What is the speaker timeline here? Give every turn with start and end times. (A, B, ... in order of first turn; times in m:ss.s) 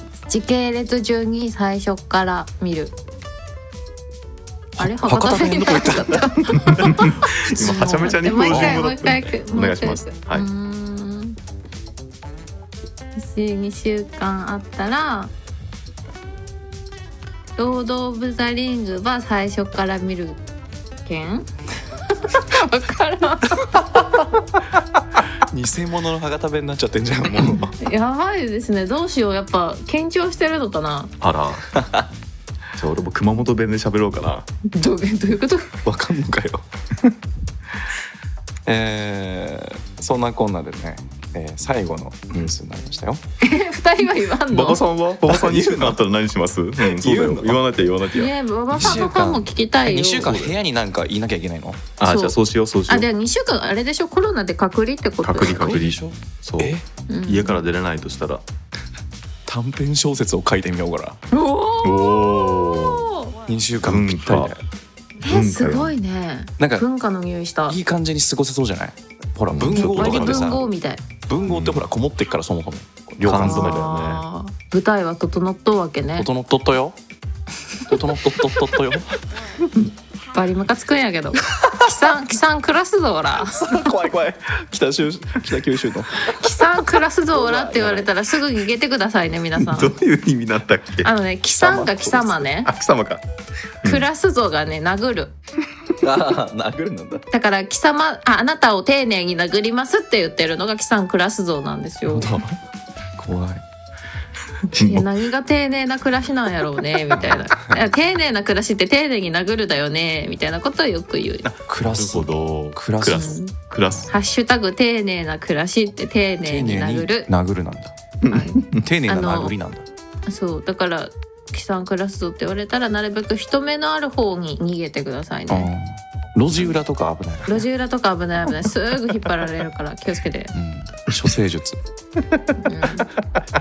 0:00.2-0:02.9 A
0:04.8-0:08.8 B
0:04.8-0:11.4 A
0:06.6-0:10.5 C
0:13.2-0:15.3 A
0:17.6-0:20.4 A
0:21.0-0:21.5 A
0:22.1-0:23.9 A
0:25.4-0:27.7 B
0:27.8-0:31.1 A
0:31.2-0:31.7 C
0:31.7-0:32.1 B
0:32.7-0:34.5 C
0:34.6-0:35.7 A
0:35.8-0:36.6 B
0:38.6-0:43.2 B
0:43.4-0:44.8 A
0:44.5-0:49.0 C
0:45.2-0:46.0 B
0:46.8-0:47.6 B
0:48.1-0:50.3 A
0:48.7-0:51.8 B
0:50.2-0:50.6 C
0:52.0-0:53.1 C
0:52.0-0:52.4 A
0:52.9-0:55.8 A
0:55.2-0:58.4 C
0:55.4-0:56.8 B
0:57.1-0:57.6 A
0:59.5-1:01.2 B
1:01.3-1:03.3 A
1:01.8-1:03.1 C
1:03.4-1:04.6 B
1:03.8-1:04.5 C
1:05.2-1:07.8 A
1:05.2-1:05.9 C
1:06.6-1:06.8 B
1:07.7-1:10.7 B
1:09.5-1:10.6 C
1:09.7-1:11.1 A
1:11.3-1:13.8 B
1:11.4-1:11.9 C
1:13.2-1:14.2 C
1:13.3-1:16.3 A
1:16.2-1:17.0 B
1:17.9-1:19.2 B
1:20.3-1:23.9 A
1:23.4-1:26.6 B
1:26.2-1:29.9 A
1:27.3-1:28.1 B
1:29.6-1:31.1 C
1:31.0-1:32.7 A
1:31.6-1:32.4 B
1:32.5-1:33.2 C
1:33.8-1:35.3 A
1:36.0-1:37.2 B
1:37.3-1:42.3 A
1:42.1-1:42.6 B
1:43.2-1:43.6 B
1:44.7-1:45.0 C
1:44.8-1:51.4 A
1:47.2-1:47.7 B
1:51.4-1:53.3 B
1:51.9-1:54.1 C
1:53.1-1:53.5 A
1:54.1-1:57.3 A
1:56.4-1:57.9 B
1:58.2-1:58.8 C
1:58.3-1:59.5 A
1:58.7-1:59.8 B
2:00.3-2:05.7 A
2:05.5-2:07.6 B
2:07.5-2:10.5 A
2:10.5-2:11.8 B
2:12.3-2:12.6 C
2:12.6-2:13.1 A